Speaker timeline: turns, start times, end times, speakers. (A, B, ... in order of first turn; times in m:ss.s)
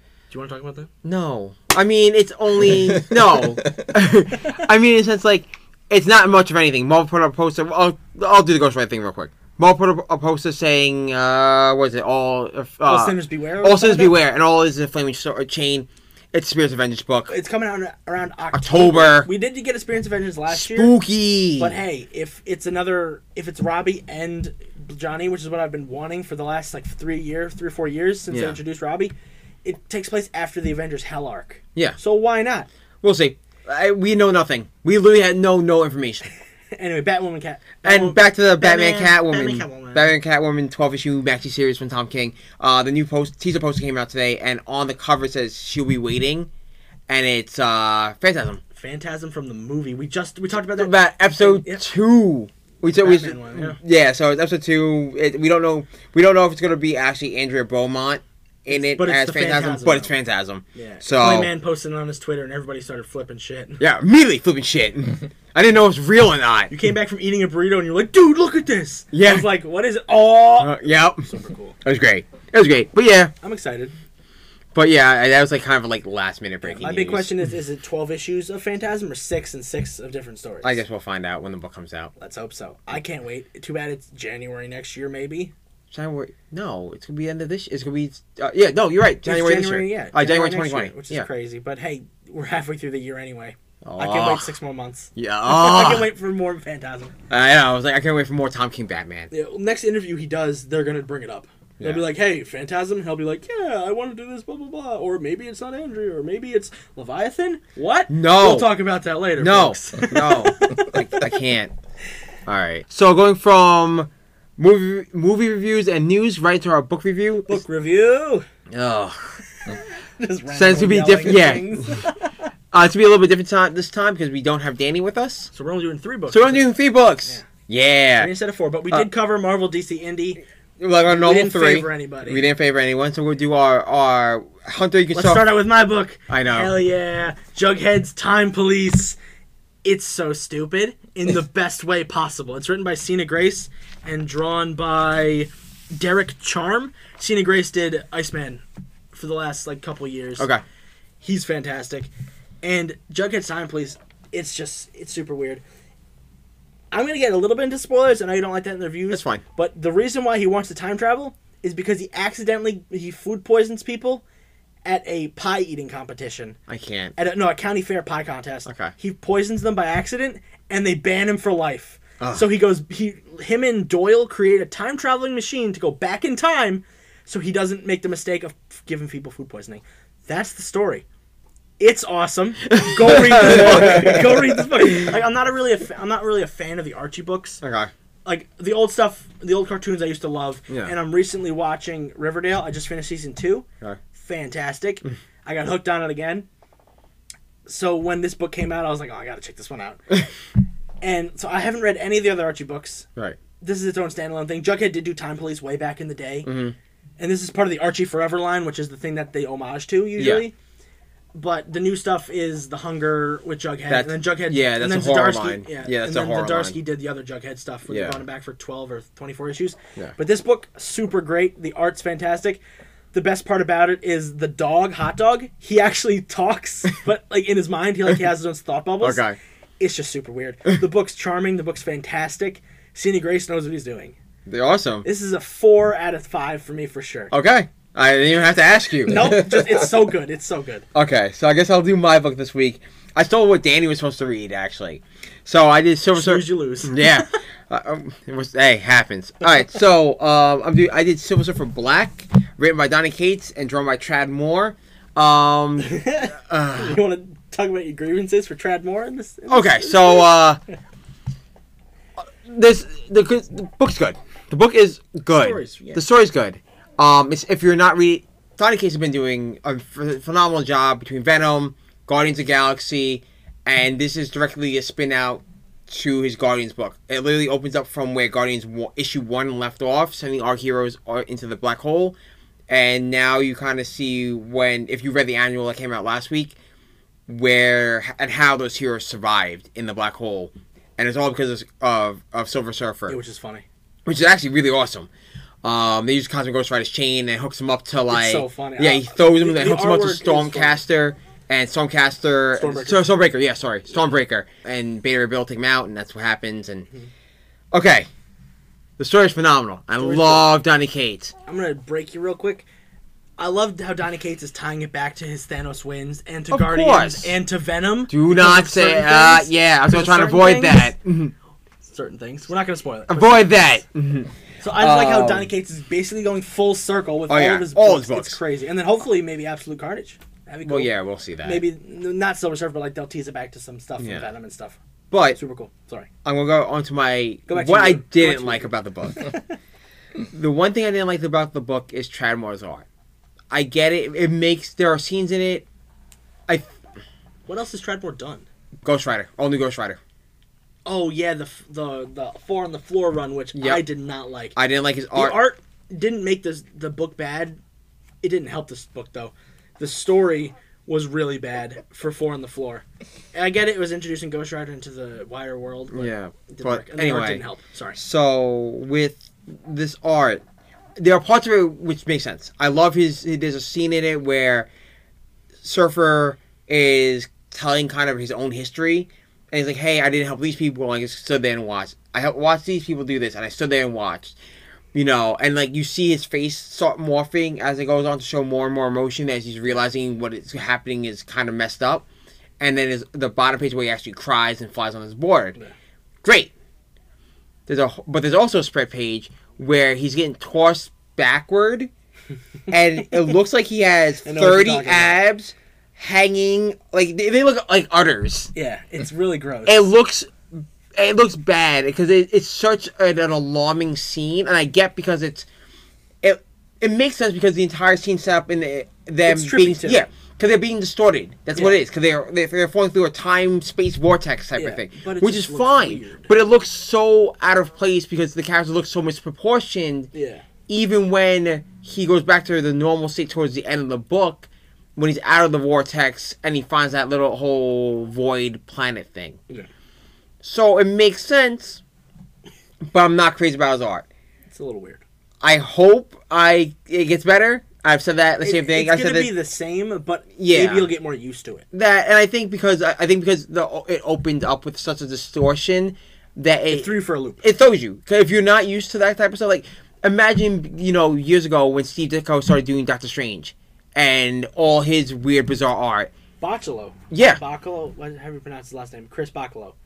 0:00.3-0:00.9 A
0:01.0-0:17.3 B
0:12.8-0:14.2 A
0:17.3-0:20.9 A
0:18.5-0:19.3 B
0:20.5-0:21.8 B
0:21.6-0:29.1 A
0:28.3-0:28.6 B
0:29.6-0:32.7 A
0:33.0-0:36.3 B
0:36.7-0:40.1 A
0:37.8-0:46.5 B
0:47.1-0:48.6 B
0:48.7-0:51.8 A
0:50.8-1:01.5 B
0:52.9-0:53.8 A
0:58.7-1:00.1 A
1:00.7-1:03.8 A
1:03.8-1:06.7 B
1:06.7-1:11.8 A
1:09.1-1:09.5 B
1:10.6-1:11.3 B
1:11.8-1:13.3 B
1:13.4-1:13.9 A
1:14.7-1:17.3 B
1:16.6-1:20.8 A
1:20.6-1:22.1 B
1:22.2-1:25.5 A
1:25.9-1:31.3 B
1:29.2-1:37.1 A
1:33.8-1:34.5 B
1:35.2-1:36.1 B
1:37.3-1:39.3 B
1:39.3-1:51.3 A
1:41.8-1:42.0 B
1:48.1-1:48.8 B
1:49.4-1:51.7 B
1:52.4-1:57.6 B
1:57.5-1:58.5 A
1:58.7-1:59.4 B
2:00.2-2:02.3 A
2:00.5-2:02.0 B
2:02.7-2:05.5 B
2:05.5-2:06.7 A
2:06.3-2:08.3 B
2:08.2-2:10.4 A
2:10.8-2:15.6 B
2:11.1-2:12.4 A
2:15.1-2:19.2 A
2:16.3-2:16.7 B
2:19.8-2:30.5 A
2:31.2-2:32.1 A
2:32.6-2:35.6 A
2:36.9-2:44.2 A
2:39.1-2:39.4 B
2:44.8-2:46.6 A
2:46.7-2:47.1 B
2:47.2-3:01.0 A
2:48.6-2:48.9 B
2:52.2-2:52.5 B
3:01.8-3:07.6 A
3:02.7-3:05.1 B
3:07.6-3:07.9 B
3:08.2-3:16.5 A
3:10.7-3:10.9 B
3:17.6-3:20.2 A
3:21.0-3:23.1 A
3:23.6-3:26.5 A
3:26.4-3:26.8 B
3:27.2-3:30.5 A
3:30.2-3:30.4 B
3:31.3-3:42.6 A
3:33.9-3:36.8 B
3:37.9-3:38.2 B
3:43.1-3:49.2 A
3:49.0-3:49.4 B
3:49.8-3:54.2 A
3:54.5-3:55.0 B
3:55.0-3:57.3 A
3:57.3-3:59.9 B
3:59.1-4:00.8 A
4:00.9-4:17.0 B
4:06.1-4:07.0 A
4:15.8-4:20.3 A
4:19.5-4:20.6 B
4:22.4-4:42.2 B
4:25.3-4:26.0 A
4:42.7-4:46.5 B
4:47.3-4:53.2 B
4:53.1-4:53.6 A
4:54.0-4:55.1 B
4:55.6-5:06.9 B
4:58.1-5:00.8 A
5:02.6-5:03.0 A
5:07.7-5:08.1 B
5:09.0-5:11.3 B
5:10.0-5:10.5 A
5:11.4-5:12.6 A
5:13.4-5:20.9 A
5:16.5-5:17.4 B
5:18.1-5:21.3 B
5:21.8-5:23.7 A
5:23.1-5:25.5 B
5:24.6-5:30.9 A
5:27.3-5:28.4 B
5:30.6-5:31.6 B
5:31.4-5:34.8 A
5:34.0-5:34.3 B
5:35.1-5:35.4 B
5:35.3-5:36.1 A
5:36.2-5:39.3 B
5:37.5-5:39.4 A
5:40.3-5:42.8 B
5:43.5-5:45.6 B
5:47.5-5:48.4 A
5:48.8-5:50.0 B
5:50.8-5:54.6 A
5:53.5-5:53.8 B
5:54.6-5:55.4 B
5:55.1-5:57.6 A
5:58.2-6:08.0 A
6:05.9-6:07.4 B
6:08.0-6:10.4 B
6:11.0-6:14.7 B
6:15.6-6:24.3 B
6:24.9-6:32.0 B
6:32.6-6:35.6 B
6:36.2-6:36.5 B
6:37.7-6:41.9 B
6:42.7-6:48.5 B
6:44.2-6:45.2 A
6:48.5-6:49.9 A
6:49.6-6:55.4 B
6:56.2-7:10.1 B
6:59.2-7:00.0 A
7:01.5-7:01.8 A
7:04.6-7:06.3 A
7:10.1-7:10.4 A
7:10.7-7:19.4 B
7:20.4-7:21.8 B
7:22.9-7:24.1 B
7:24.5-7:25.0 A
7:25.4-7:29.3 B
7:28.4-7:31.6 A
7:30.4-7:30.9 B
7:31.7-7:46.1 B
7:36.7-7:37.4 A
7:46.4-7:49.8 A
7:47.1-7:47.4 B